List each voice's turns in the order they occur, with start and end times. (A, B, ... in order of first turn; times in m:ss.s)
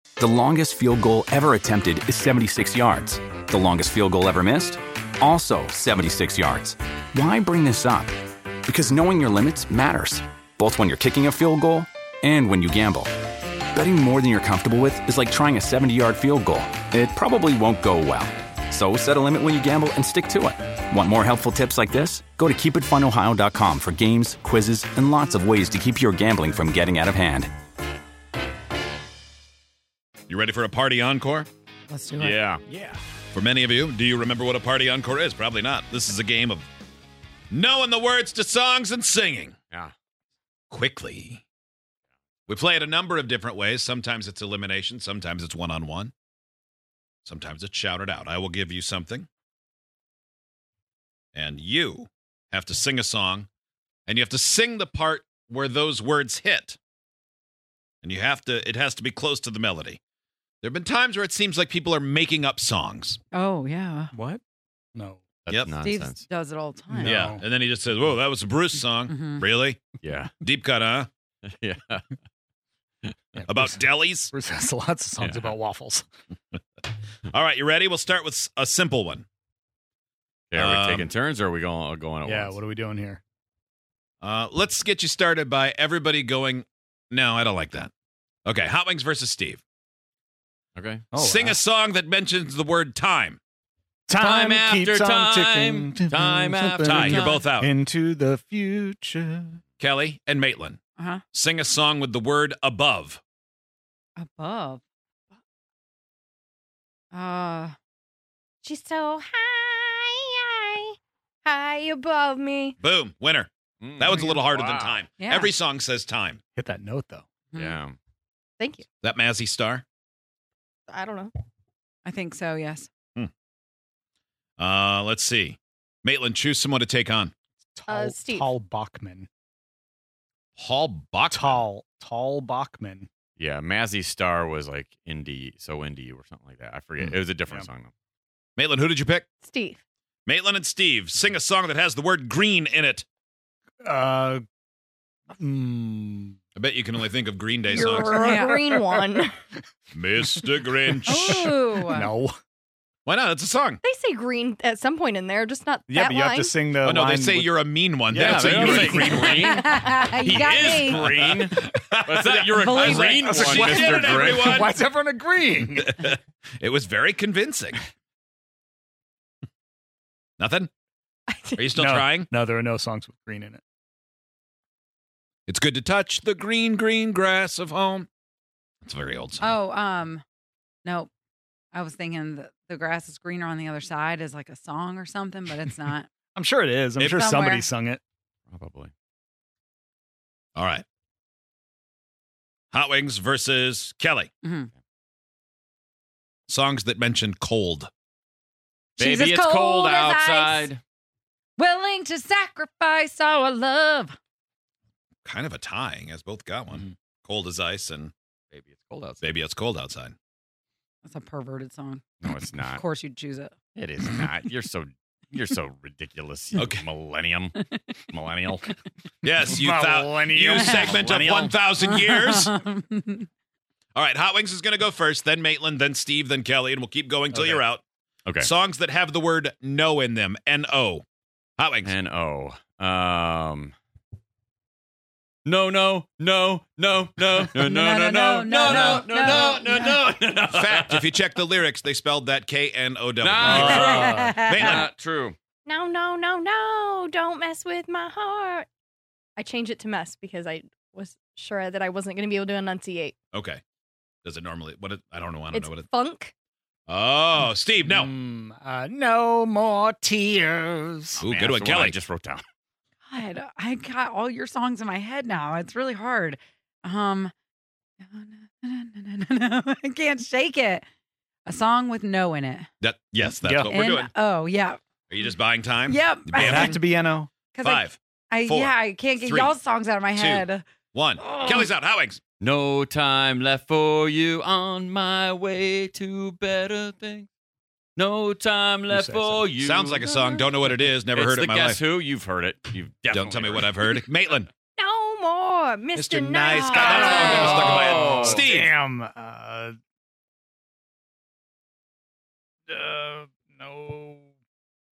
0:00.2-0:13.1 A
0:13.7-0:27.5 A
0:30.3-0:31.5 B
0:31.9-0:32.4 C
0:32.2-0:32.6 D
0:32.7-0:33.0 E
0:33.3-0:36.6 B
0:37.5-0:39.6 B
0:40.7-0:41.4 B
0:42.5-0:46.1 B
0:47.2-0:49.3 B
0:51.3-0:53.5 B
0:54.1-0:56.8 B
0:58.0-1:00.0 B
1:00.6-1:03.2 B
1:03.3-1:04.1 C
1:04.1-1:04.4 E
1:04.9-1:05.2 E
1:05.4-1:06.2 D
1:05.5-1:05.8 B
1:05.8-1:07.2 C
1:06.9-1:07.4 E
1:07.0-1:09.8 B
1:09.1-1:09.4 C
1:10.0-1:10.3 D
1:10.4-1:11.1 B
1:11.5-1:12.1 D
1:13.3-1:16.0 E
1:13.5-1:14.3 B
1:15.2-1:15.5 D
1:17.3-1:19.2 B
1:20.5-1:22.6 D
1:20.5-1:21.1 B
1:22.2-1:23.2 E
1:24.2-1:27.9 B
1:28.4-1:29.6 B
1:30.8-1:31.1 D
1:31.1-1:31.6 E
1:31.2-1:33.4 B
1:34.1-1:39.6 E
1:34.2-1:37.2 D
1:36.8-1:37.7 B
1:37.1-1:37.4 C
1:39.8-1:40.8 B
1:41.0-1:41.2 C
1:41.3-1:43.2 B
1:44.2-1:44.8 C
1:47.1-1:47.8 C
1:48.6-1:52.8 F
1:52.8-1:56.4 B
1:53.8-1:55.0 D
1:55.2-1:55.5 C
1:56.6-1:57.2 E
1:57.5-1:57.8 C
1:57.6-1:58.0 D
1:59.0-1:59.8 B
2:00.9-2:01.3 F
2:02.0-2:02.9 C
2:04.6-2:07.3 B
2:07.7-2:09.3 E
2:07.9-2:08.5 F
2:10.6-2:11.6 B
2:11.3-2:13.1 E
2:13.4-2:17.9 D
2:18.6-2:19.3 B
2:19.4-2:19.8 F
2:20.3-2:23.0 B
2:23.8-2:24.4 E
2:25.3-2:26.4 E
2:26.6-2:28.2 B
2:27.7-2:29.3 F
2:27.9-2:29.0 E
2:28.0-2:28.6 C
2:29.9-2:31.5 B
2:30.2-2:32.4 E
2:31.0-2:32.1 C
2:33.0-2:33.8 B
2:33.8-2:36.6 F
2:35.9-2:39.2 E
2:36.8-2:39.4 B
2:38.1-2:44.7 D
2:39.1-2:41.0 C
2:40.3-2:44.8 B
2:42.5-2:43.2 C
2:43.2-2:46.0 E
2:45.8-2:47.8 B
2:50.4-2:50.7 B
2:51.6-2:52.3 B
2:51.7-2:53.6 E
2:55.5-2:58.1 B
2:58.8-2:59.5 B
2:59.4-3:00.2 C
3:00.8-3:01.1 C
3:01.7-3:06.1 C
3:06.3-3:08.0 E
3:07.0-3:07.3 B
3:07.0-3:07.6 C
3:08.5-3:08.9 D
3:10.6-3:10.8 B
3:12.7-3:14.3 B
3:14.4-3:14.7 C
3:16.5-3:17.9 B
3:19.0-3:20.7 C
3:19.0-3:20.8 D
3:21.6-3:24.2 C
3:25.2-3:28.1 B
3:28.5-3:29.3 D
3:29.2-3:30.1 B
3:31.0-3:32.1 C
3:32.2-3:32.8 D
3:32.7-3:33.5 C
3:33.8-3:37.5 D
3:36.6-3:36.8 B
3:38.1-3:38.6 D
3:39.2-3:42.5 B
3:39.4-3:41.6 E
3:41.8-3:43.3 C
3:43.9-3:47.8 B
3:47.3-3:47.6 E
3:48.4-3:51.0 B
3:51.6-3:51.9 B
3:51.8-3:53.7 D
3:55.4-4:01.2 D
3:57.6-4:00.0 C
3:58.7-3:59.0 B
4:00.5-4:04.9 B
4:03.2-4:05.4 D
4:03.4-4:04.8 C
4:05.6-4:08.7 F
4:09.4-4:13.1 F
4:13.3-4:13.6 B
4:14.2-4:15.8 B
4:15.5-4:16.3 F
4:16.9-4:18.1 B
4:17.8-4:21.2 E
4:21.2-4:22.4 D
4:21.2-4:22.0 B
4:23.0-4:27.3 C
4:28.0-4:30.8 C
4:31.4-4:32.7 C
4:32.8-4:34.1 B
4:33.4-4:33.7 E
4:33.7-4:34.8 C
4:35.1-4:36.8 B
4:35.9-4:36.8 C
4:36.3-4:37.3 E
4:37.5-4:40.6 C
4:37.6-4:39.5 B
4:40.1-4:42.2 B
4:41.2-4:41.7 C
4:42.4-4:47.3 D
4:48.0-4:54.0 D
4:48.9-4:49.6 E
4:49.6-4:51.8 B
4:53.1-4:54.5 B
4:54.8-4:57.2 F
4:55.9-4:58.7 B
4:56.5-4:57.7 C
4:56.7-4:59.7 E
4:56.9-4:58.5 D
5:02.7-5:04.3 E